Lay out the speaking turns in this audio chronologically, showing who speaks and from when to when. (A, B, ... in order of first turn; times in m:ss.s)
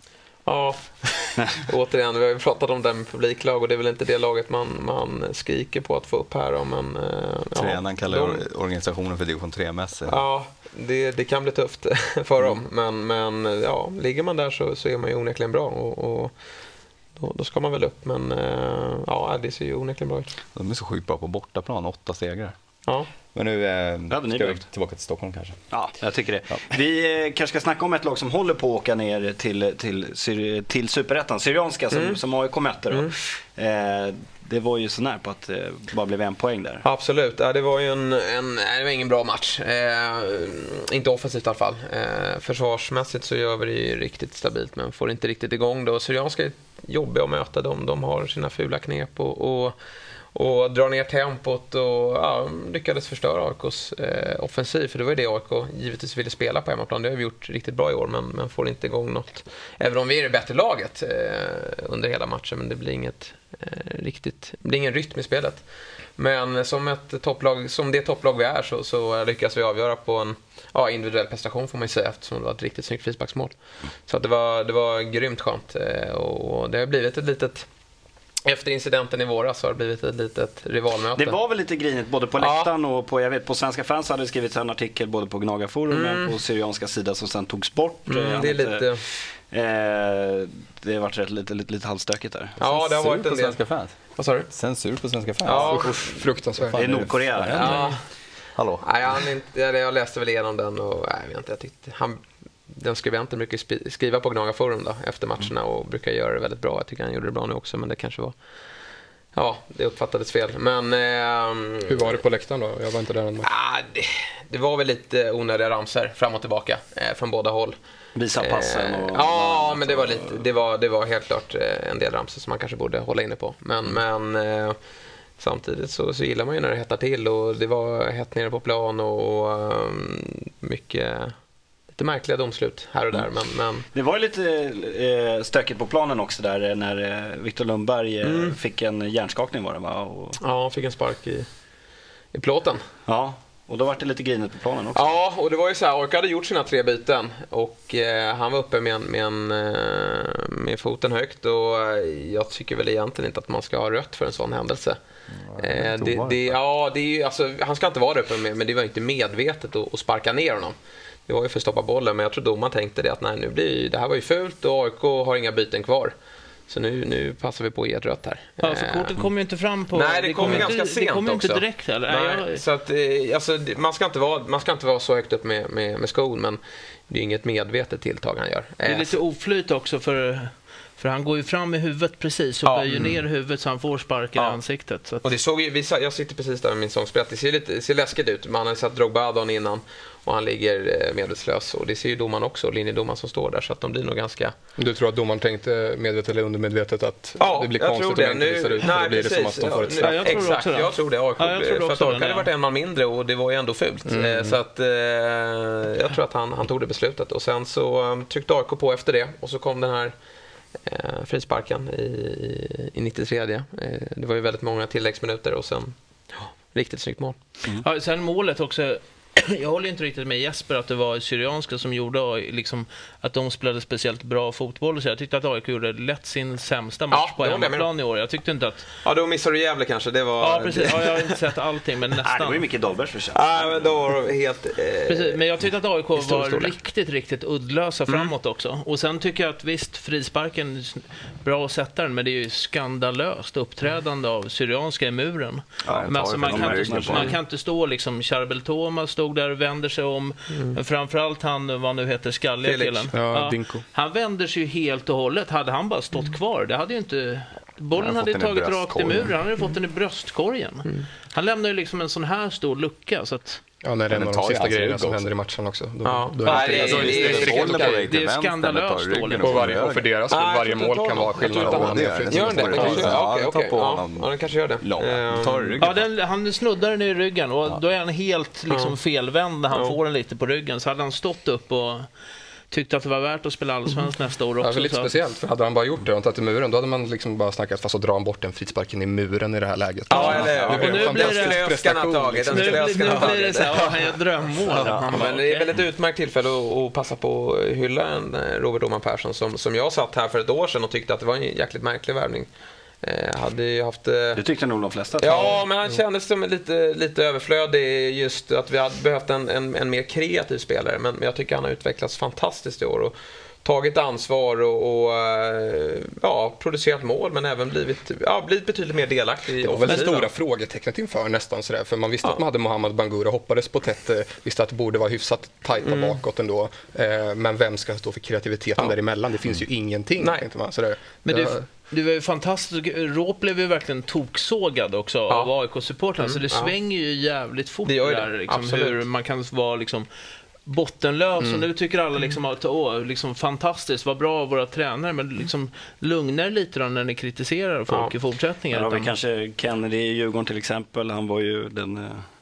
0:00.4-0:08.4 A
0:07.6-0:10.2 B
0:10.1-0:16.3 A
0:17.2-0:20.3 A
0:20.5-0:22.5 B
0:23.3-0:25.6 B
0:24.1-0:24.7 C
0:25.7-0:36.8 C
0:31.9-0:32.2 A
0:32.9-0:33.1 A
0:36.8-0:49.7 A
0:50.3-1:05.6 A
1:06.2-1:13.5 A
1:14.1-1:17.7 A
1:18.4-1:21.3 A
1:21.1-1:32.6 C
1:22.4-1:22.7 A
1:25.9-1:26.3 A
1:28.0-1:29.0 A
1:32.6-1:34.5 A
1:32.6-1:35.9 B
1:35.4-1:36.2 A
1:35.5-1:37.1 D
1:36.5-1:38.0 B
1:36.7-1:37.9 C
1:37.5-1:38.0 A
1:38.6-1:38.9 B
1:38.8-1:48.3 A
1:49.3-1:52.2 A
1:51.9-1:53.5 D
1:53.4-1:57.8 A
1:58.2-2:00.4 C
1:58.3-2:04.8 A
2:05.4-2:11.3 A
2:11.9-2:13.8 A
2:13.9-2:20.4 C
2:18.2-2:18.6 A
2:20.4-2:21.5 A
2:22.3-2:22.8 A
2:23.1-2:25.1 C
2:24.9-2:35.0 A
2:35.3-2:36.6 B
2:35.6-2:40.7 A
2:41.3-2:46.1 A
2:46.7-2:49.3 A
2:48.6-2:52.6 E
2:49.9-2:59.2 A
2:58.8-3:05.3 E
3:02.6-3:03.2 A
3:04.3-3:04.6 A
3:05.2-3:14.5 A
3:14.8-3:20.5 D
3:17.4-3:30.1 A
3:20.0-3:22.5 E
3:24.1-3:24.6 D
3:30.8-3:37.4 A
3:37.7-3:48.9 E
3:47.1-3:47.9 A
3:49.0-3:51.4 A
3:50.4-3:52.8 E
3:52.2-3:54.0 C
3:53.3-3:55.4 A
3:55.0-4:23.6 E
3:56.1-3:56.8 A
4:05.8-4:07.4 C
4:05.9-4:07.2 B
4:07.0-4:07.4 A
4:10.5-4:10.8 A
4:12.6-4:13.1 A
4:13.1-4:13.8 D
4:18.0-4:19.3 B
4:23.8-4:28.1 D
4:24.1-4:25.3 B
4:26.0-4:28.1 A
4:26.5-4:30.1 B
4:27.3-4:29.8 E
4:29.4-4:33.2 D
4:30.3-4:35.8 A
4:31.4-4:36.1 B
4:32.7-4:33.0 E
4:35.8-4:42.1 E
4:38.7-4:39.0 A
4:39.7-4:40.0 A
4:42.7-4:45.1 E
4:44.6-4:53.3 D
4:50.1-5:02.5 A
4:50.7-4:51.6 E
4:52.5-4:55.7 E
4:54.7-4:55.2 C
5:03.0-5:04.4 A
5:04.4-5:05.6 C
5:05.2-5:20.3 A
5:19.6-5:31.7 D
5:25.8-5:26.2 A
5:30.2-5:30.4 A
5:31.2-5:40.1 E
5:36.2-5:36.7 A
5:37.8-5:39.1 A
5:40.6-5:49.2 E
5:47.9-5:48.1 A
5:48.7-5:52.2 C